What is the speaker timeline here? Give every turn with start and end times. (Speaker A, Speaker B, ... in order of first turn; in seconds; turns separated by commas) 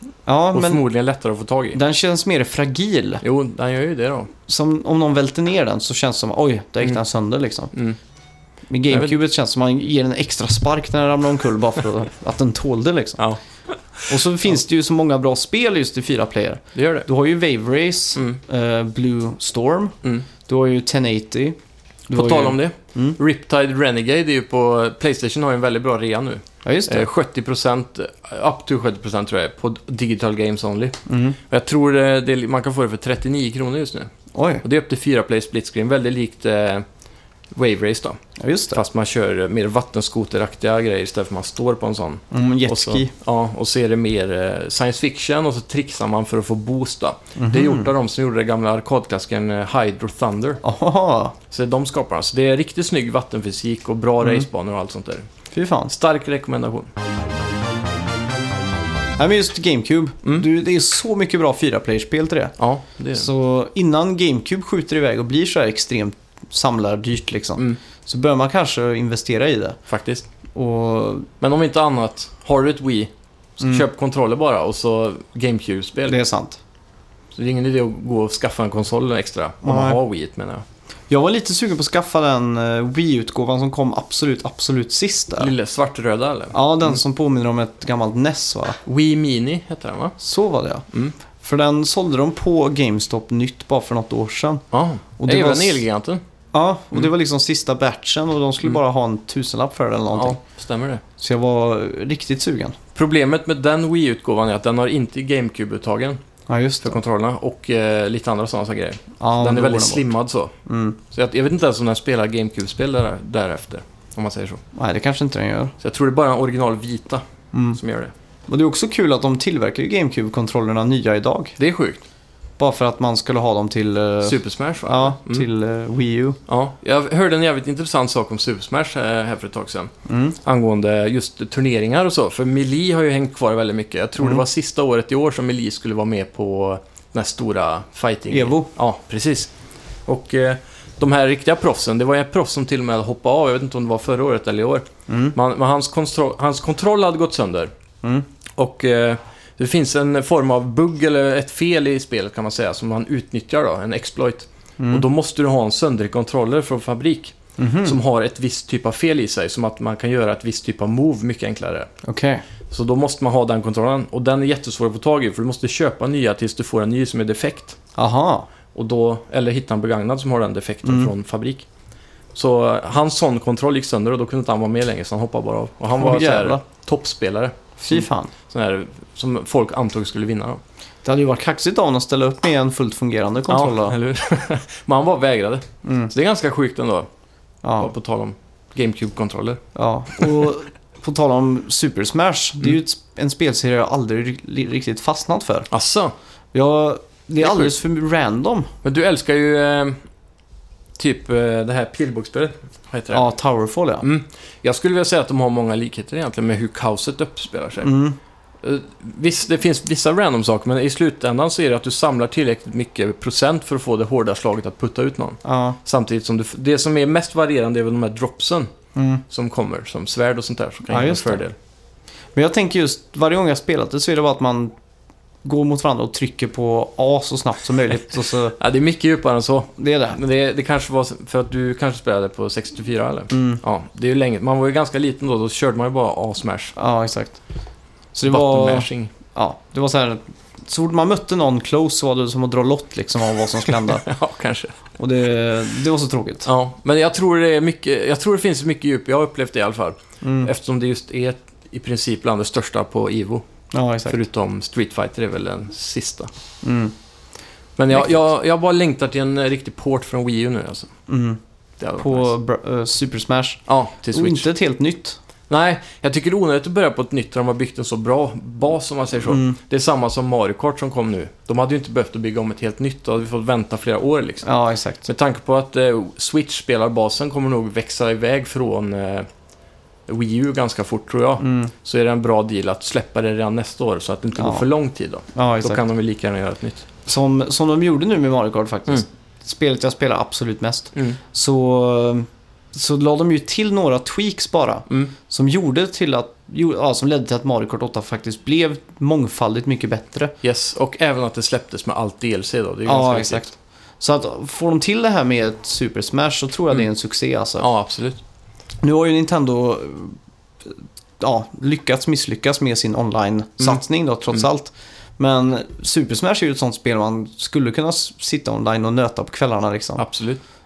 Speaker A: 0.3-0.8, Speaker B: 0.5-1.8, Speaker A: 1.7-3.2, Speaker B: 3.2-4.3, Speaker A: 4.5-7.7, Speaker A: 8.7-13.2, Speaker B: 8.9-9.2, Speaker B: 13.2-14.1, Speaker A: 14.1-21.6, Speaker B: 16.8-17.1, Speaker A: 22.1-23.2, Speaker B: 22.1-34.1, Speaker A: 26.6-27.1, Speaker A: 31.1-31.4, Speaker A: 34.3-34.6, Speaker B: 34.6-36.9, Speaker B: 37.5-38.2, Speaker A: 38.4-38.8, Speaker B: 38.7-50.6, Speaker A: 42.3-43.1, Speaker A: 47.4-47.9, Speaker A: 50.6-51.4, Speaker B: 51.5-55.3, Speaker A: 55.5-55.9, Speaker B: 55.9-56.9, Speaker A: 59.2-62.5, Speaker B: 62.6-63.3, Speaker A: 63.1-69.8, Speaker B: 69.9-70.3, Speaker A: 70.5-71.3, Speaker B: 71.4-76.2, Speaker A: 73.6-73.9, Speaker A: 76.1-76.6, Speaker B: 77.3-80.6, Speaker A: 79.6-80.0, Speaker A: 81.1-85.5, Speaker B: 85.4-86.5, Speaker A: 86.5-88.8, Speaker B: 88.8-90.2, Speaker A: 90.2-90.9, Speaker A: 91.4-94.6, Speaker B: 94.7-96.2, Speaker A: 95.2-95.8, Speaker A: 96.5-100.4, Speaker B: 100.1-101.0, Speaker A: 101.2-102.8, Speaker B: 103.0-106.2, Speaker A: 106.5-107.0, Speaker B: 106.8-110.5, Speaker A: 109.2-110.1, Speaker A: 110.7-111.0, Speaker B: 111.1-114.6, Speaker A: 114.8-115.7, Speaker B: 115.8-118.1, Speaker A: 117.5-117.8, Speaker A: 118.5-121.6, Speaker B: 121.6-122.0, Speaker A: 122.6-126.4, Speaker B: 124.2-125.5, Speaker B: 126.5-139.5, Speaker A: 130.1-130.4, Speaker A: 138.3-138.7, Speaker B: 140.1-147.7, Speaker A: 145.1-145.4, Speaker B: 148.6-161.9, Speaker A: 154.8-155.1, Speaker A: 157.6-158.0, Speaker A: 162.0-162.4, Speaker B: 162.7-167.8, Speaker A: 168.0-168.5, Speaker B: 168.7-171.7, Speaker A: 170.8-171.1, Speaker B: 172.3-180.6, Speaker A: 176.0-176.6, Speaker A: 177.8-178.3, Speaker A: 181.1-184.0, Speaker B: 183.5-187.1, Speaker A: 185.8-186.1, Speaker A: 187.6-187.9, Speaker B: 187.8-189.6, Speaker A: 189.8-195.7, Speaker B: 190.2-190.4, Speaker B: 195.7-196.1, Speaker A: 196.5-198.7, Speaker B: 197.4-197.7, Speaker B: 198.8-200.0, Speaker B: 201.0-203.3, Speaker A: 203.1-204.1, Speaker B: 204.0-207.9, Speaker A: 207.8-208.2, Speaker B: 208.6-218.7, Speaker A: 215.4-215.8, Speaker A: 218.9-219.2, Speaker B: 219.3-221.6, Speaker A: 220.9-221.4, Speaker A: 222.4-224.8, Speaker A: 225.4-228.6, Speaker B: 228.6-236.7, Speaker A: 229.8-230.2, Speaker A: 233.3-233.6, Speaker A: 236.8-237.4, Speaker A: 238.1-244.1, Speaker B: 238.3-239.1, Speaker B: 243.7-244.8, Speaker A: 245.0-246.5, Speaker B: 246.4-253.4, Speaker A: 250.2-250.5, Speaker A: 253.7-254.2, Speaker B: 254.1-256.3, Speaker A: 256.6-256.9, Speaker B: 257.8-260.9, Speaker A: 261.1-261.4, Speaker B: 261.8-262.3, Speaker A: 262.0-265.2, Speaker B: 263.7-264.5, Speaker B: 265.5-274.5, Speaker A: 269.3-269.6, Speaker A: 274.4-275.1, Speaker B: 275.1-279.3, Speaker B: 280.1-286.9, Speaker A: 281.4-281.7, Speaker A: 284.4-284.6, Speaker A: 285.3-285.8, Speaker A: 287.1-300.4, Speaker B: 300.4-303.5, Speaker A: 302.9-307.7, Speaker B: 307.6-308.2, Speaker A: 308.8-310.2, Speaker A: 310.7-320.1, Speaker B: 313.6-314.4, Speaker B: 320.0-320.4